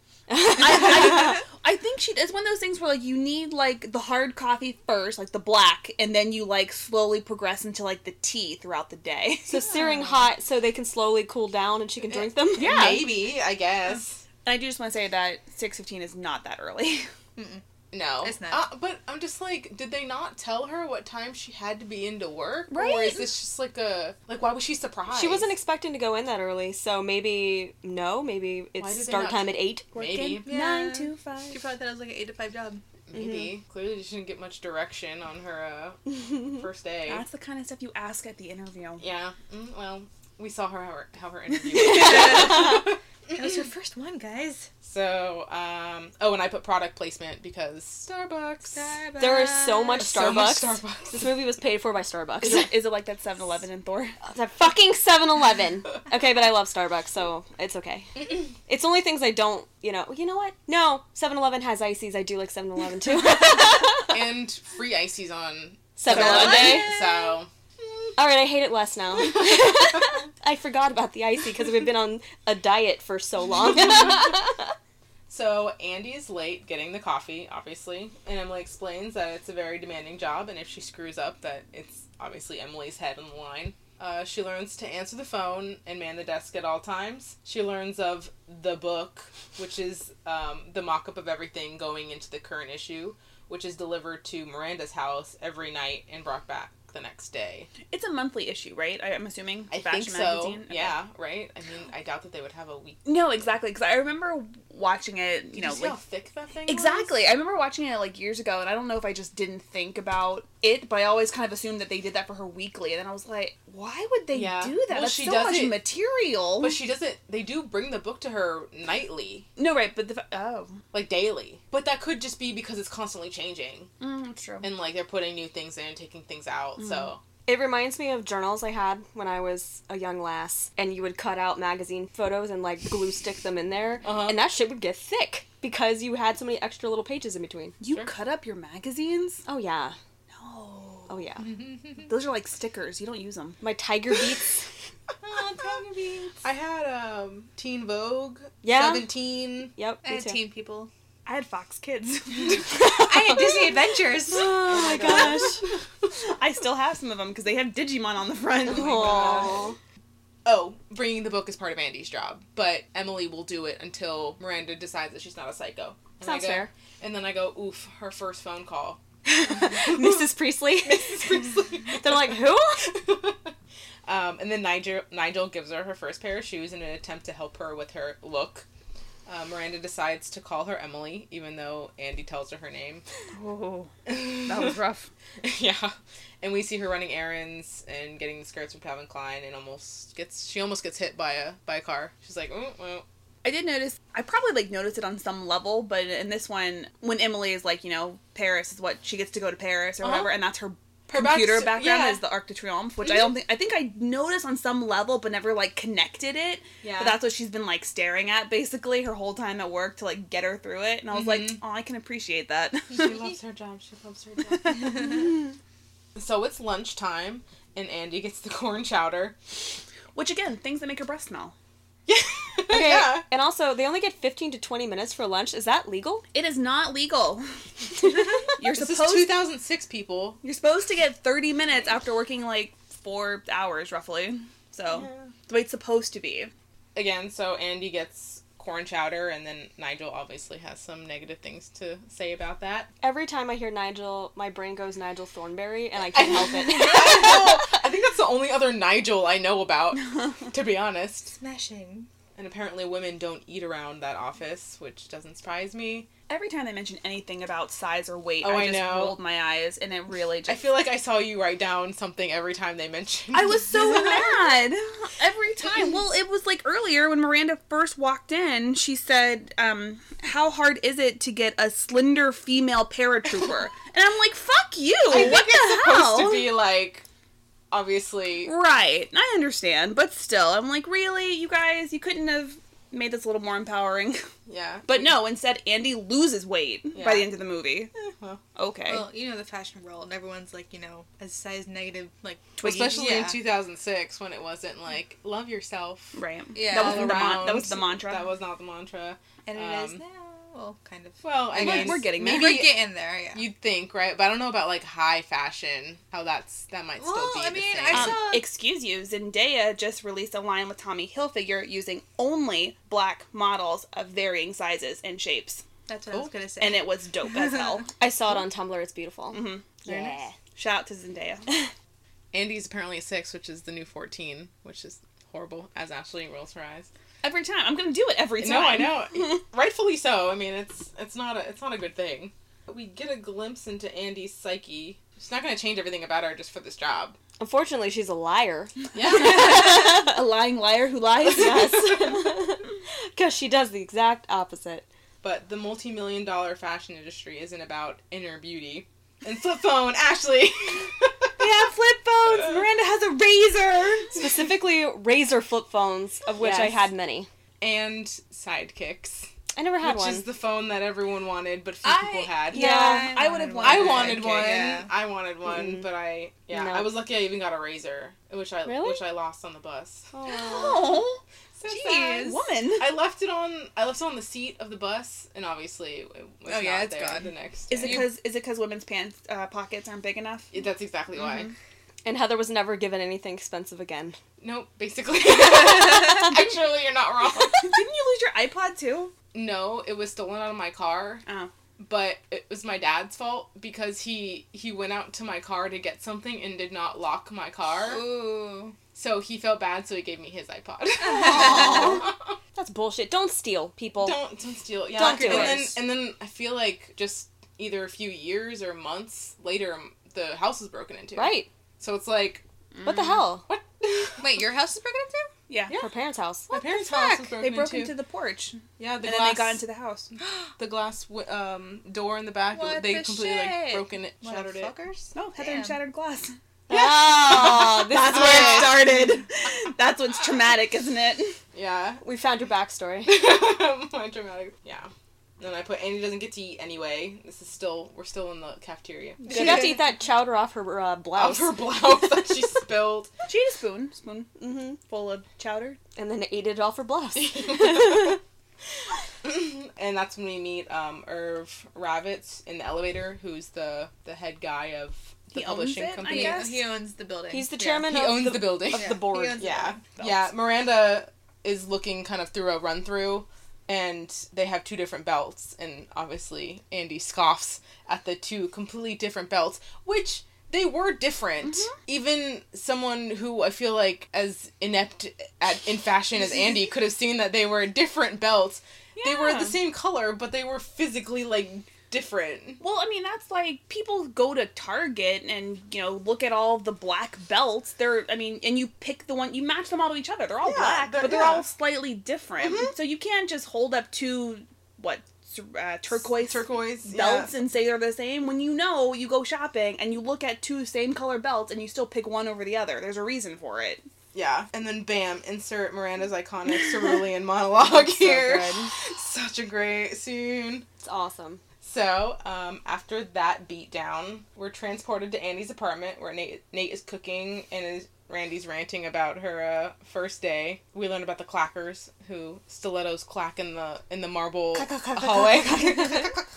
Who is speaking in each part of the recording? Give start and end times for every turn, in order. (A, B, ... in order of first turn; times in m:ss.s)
0:00.3-0:01.4 A
0:00.6-0:09.6 B
0:09.5-0:12.8 A
0:12.1-0:14.2 C
0:12.6-0:13.2 B
0:14.4-0:17.1 B
0:17.4-0:17.6 D
0:17.9-0:25.5 C
0:18.2-0:18.6 D
0:22.7-0:23.3 B
0:25.1-0:29.9 A
0:28.8-0:30.5 C
0:29.9-0:31.6 B
0:30.4-0:32.8 D
0:33.1-0:37.2 C
0:33.1-0:33.5 A
0:37.1-0:39.0 B
0:39.0-0:43.0 C
0:41.8-0:42.5 B
0:42.1-0:42.8 A
0:43.3-0:44.7 D
0:44.8-0:48.9 C
0:48.7-0:50.1 D
0:49.2-0:52.7 A
0:50.0-0:51.3 C
0:52.4-0:54.2 B
0:54.2-1:04.1 A
1:04.1-1:07.5 C
1:06.0-1:06.9 A
1:06.1-1:06.8 B
1:06.6-1:07.3 D
1:08.2-1:14.7 A
1:09.3-1:09.8 C
1:13.8-1:14.3 C
1:15.3-1:37.7 C
1:37.9-1:40.9 B
1:39.7-1:43.0 C
1:43.0-1:46.0 B
1:45.6-1:47.1 C
1:46.7-1:56.8 B
1:54.3-1:55.8 C
1:56.6-1:59.5 C
1:59.6-2:00.8 B
2:00.9-2:03.9 C
2:04.0-2:04.7 B
2:04.6-2:07.2 C
2:06.8-2:07.1 B
2:07.4-2:17.7 A
2:14.0-2:14.4 C
2:17.8-2:19.4 B
2:19.4-2:20.0 A
2:20.3-2:21.2 B
2:21.1-2:21.5 A
2:22.0-2:23.6 B
2:23.6-2:24.6 A
2:25.2-2:25.9 C
2:25.3-2:26.3 D
2:26.4-2:29.7 C
2:28.6-2:29.1 A
2:29.8-2:30.4 A
2:30.0-2:30.9 D
2:31.2-2:32.8 B
2:32.8-2:35.3 D
2:34.3-2:35.6 A
2:34.7-2:35.6 C
2:36.2-2:39.6 B
2:38.7-2:39.6 C
2:38.7-2:39.8 A
2:40.4-2:50.3 C
2:46.2-2:46.7 A
2:49.2-2:51.2 A
2:50.8-2:53.5 C
2:51.9-2:52.8 A
2:54.0-2:58.6 C
2:59.2-3:03.0 C
3:03.3-3:05.1 B
3:04.1-3:04.8 C
3:05.4-3:13.0 C
3:13.4-3:33.2 B
3:20.0-3:20.3 C
3:21.1-3:22.2 C
3:23.0-3:23.3 C
3:26.8-3:27.2 C
3:31.1-3:31.6 C
3:32.9-3:35.3 C
3:34.6-3:35.0 B
3:36.1-3:39.4 C
3:40.1-3:41.5 B
3:42.1-3:43.2 C
3:42.7-3:46.2 A
3:46.3-3:49.4 B
3:48.7-3:50.4 C
3:50.4-3:56.5 B
3:56.9-4:02.9 C
4:03.0-4:07.6 A
4:06.1-4:11.3 C
4:11.3-4:12.1 D
4:12.4-4:16.1 C
4:16.3-4:20.6 B
4:18.4-4:19.2 C
4:20.4-4:24.4 C
4:23.3-4:36.5 B
4:35.1-4:37.0 C
4:37.7-4:38.5 C
4:38.4-4:44.2 B
4:44.5-4:45.0 C
4:44.8-4:47.9 B
4:46.9-4:47.3 C
4:47.9-4:48.4 C
4:48.6-4:49.1 B
4:48.9-4:53.4 D
4:52.6-4:56.2 C
4:56.1-4:58.2 B
4:56.5-4:57.4 D
4:56.7-5:00.0 C
4:59.5-5:03.4 D
5:01.2-5:02.8 C
5:01.5-5:02.6 B
5:03.3-5:08.2 C
5:07.0-5:08.4 D
5:07.9-5:15.6 B
5:15.9-5:17.7 D
5:16.6-5:17.9 B
5:18.0-5:20.3 A
5:19.3-5:21.7 B
5:22.3-5:26.9 C
5:27.2-5:29.4 B
5:28.4-5:37.2 C
5:37.4-5:40.2 A
5:38.9-5:39.8 C
5:39.1-5:42.4 B
5:41.2-5:42.2 C
5:41.3-5:44.8 A
5:45.2-5:51.3 C
5:51.4-5:54.1 B
5:54.1-5:57.3 A
5:56.4-5:56.7 B
5:57.6-5:59.3 C
5:59.5-6:00.2 A
5:59.8-6:02.7 C
6:02.0-6:04.9 D
6:02.2-6:04.6 B
6:02.5-6:03.1 A
6:03.6-6:10.1 C
6:05.4-6:05.9 A
6:06.5-6:06.9 A
6:08.6-6:09.0 A
6:10.1-6:11.0 A
6:10.3-6:12.9 B
6:11.6-6:18.0 C
6:11.7-6:12.3 D
6:16.5-6:17.3 D
6:17.7-6:20.5 B
6:20.5-6:21.5 C
6:22.0-6:24.2 A
6:24.4-6:27.8 C
6:27.4-6:29.1 B
6:29.3-6:31.2 C
6:31.8-6:38.0 C
6:37.8-6:38.8 D
6:38.9-6:42.4 C
6:41.0-6:42.0 D
6:41.3-6:41.9 B
6:41.4-6:42.0 A
6:42.5-6:44.2 A
6:44.0-6:52.4 C
6:44.9-6:45.7 A
6:45.2-6:45.5 B
6:51.2-6:51.5 A
6:52.8-6:53.2 B
6:52.8-6:53.4 A
6:53.5-6:54.4 C
6:54.2-6:55.3 D
6:55.5-6:55.7 B
6:55.7-6:56.9 A
6:56.5-6:57.9 C
6:57.4-7:00.1 B
6:58.8-6:59.6 C
7:00.6-7:04.7 C
7:02.5-7:05.8 D
7:05.1-7:06.3 B
7:06.7-7:08.8 A
7:07.0-7:11.4 B
7:08.1-7:08.8 C
7:11.5-7:12.0 C
7:12.0-7:13.1 A
7:13.0-7:19.8 C
7:19.3-7:21.8 A
7:19.3-7:19.7 D
7:21.2-7:23.1 C
7:23.3-7:25.8 B
7:24.4-7:24.8 A
7:26.0-7:28.2 A
7:27.1-7:28.2 C
7:29.2-7:36.4 C
7:35.3-7:36.6 B
7:36.0-7:37.9 D
7:37.3-7:39.5 A
7:37.8-8:02.6 C
7:38.7-7:39.8 D
7:59.0-7:59.6 B
8:02.6-8:23.8 B
8:10.4-8:11.5 C
8:12.4-8:12.7 C
8:16.2-8:17.3 C
8:24.1-8:30.6 C
8:27.6-8:28.7 B
8:30.8-8:31.4 A
8:31.6-8:46.2 C
8:44.7-8:46.1 A